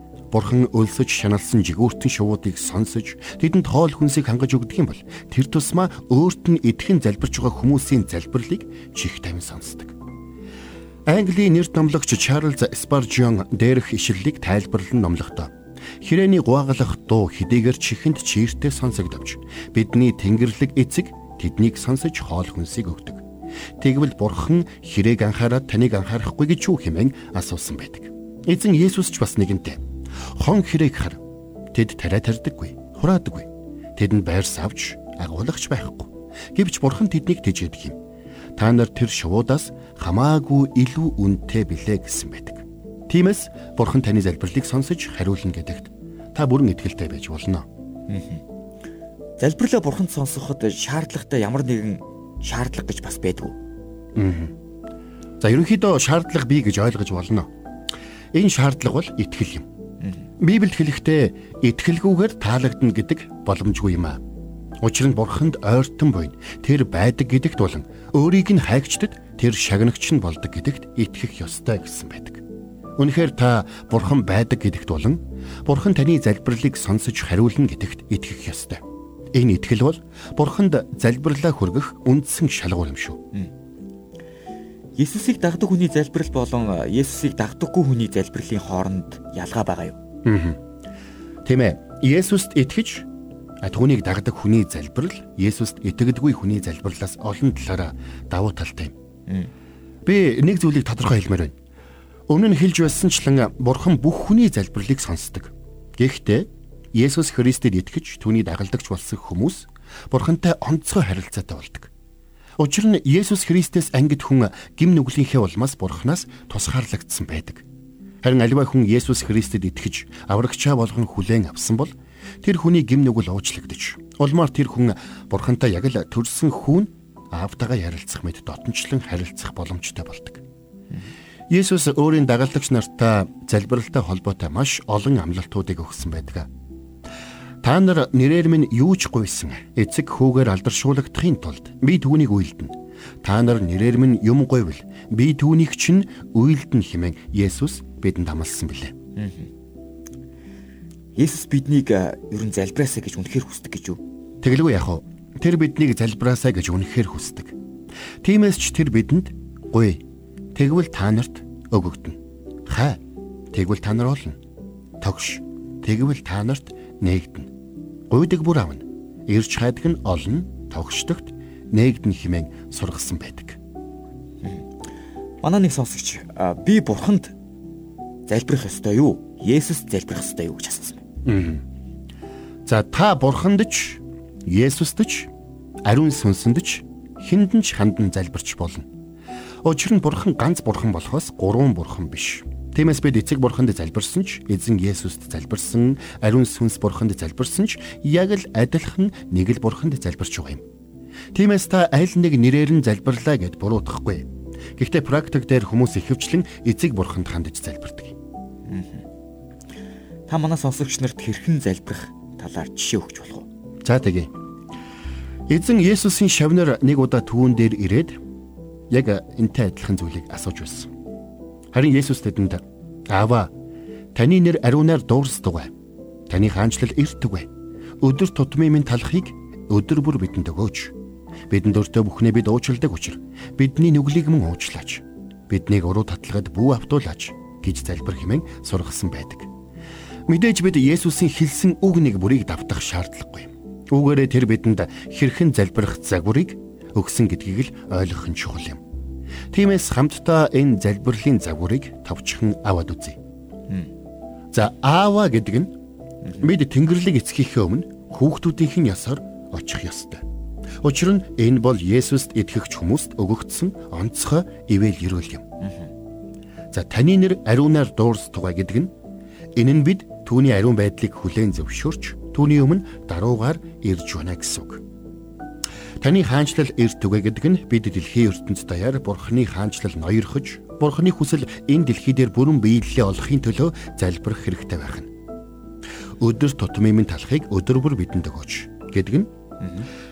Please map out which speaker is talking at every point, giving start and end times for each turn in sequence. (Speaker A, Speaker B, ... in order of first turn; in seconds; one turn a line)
Speaker A: 0.3-9.9
Speaker A: 11.1-23.2
Speaker A: 23.8-29.8
Speaker A: 30.3-31.2
Speaker A: 31.7-38.0
Speaker A: 38.6-47.6
Speaker B: 48.1-48.4
Speaker B: 49.4-53.6
Speaker A: 54.1-54.5
Speaker A: 55.4-57.5
Speaker A: 58.3-59.6
Speaker A: 60.4-64.2
Speaker A: 64.8-72.4
Speaker A: 73.0-78.8
Speaker A: 79.3-83.2
Speaker B: 85.0-90.0
Speaker A: 90.2-90.6
Speaker A: 91.4-93.1
Speaker A: 93.6-98.9
Speaker A: 100.0-101.5
Speaker A: 102.3-111.9
Speaker A: 112.6-117.6
Speaker A: 118.2-121.9
Speaker A: 122.4-130.4
Speaker A: 131.5-136.5
Speaker A: 137.6-148.9
Speaker B: 149.2-149.5
Speaker B: 151.1-154.0
Speaker A: 154.4-157.5
Speaker A: 158.2-160.0
Speaker A: 160.5-163.0
Speaker A: 163.5-164.4
Speaker A: 165.0-167.5
Speaker A: 168.1-173.6
Speaker B: 174.4-174.7
Speaker B: 175.4-177.3
Speaker B: 178.3-181.0
Speaker A: 181.2-181.6
Speaker A: 182.7-185.3
Speaker A: 185.8-188.9
Speaker A: 189.6-200.6
Speaker A: 201.3-208.2
Speaker B: 208.7-209.0
Speaker B: 210.3-213.5
Speaker A: 213.8-214.3
Speaker A: 215.5-218.2
Speaker A: 218.9-220.9
Speaker A: 221.7-223.5
Speaker A: 224.1-225.7
Speaker A: 226.3-227.5
Speaker A: 228.0-230.9
Speaker A: 231.5-239.5
Speaker A: 240.3-248.8
Speaker A: 249.5-253.2
Speaker A: 254.5-255.7
Speaker A: 256.4-260.2
Speaker A: 260.8-265.5
Speaker B: 265.6-265.9
Speaker A: 266.7-268.9
Speaker A: 269.5-274.8
Speaker A: 276.0-285.1
Speaker A: 286.2-289.3
Speaker B: 289.6-289.9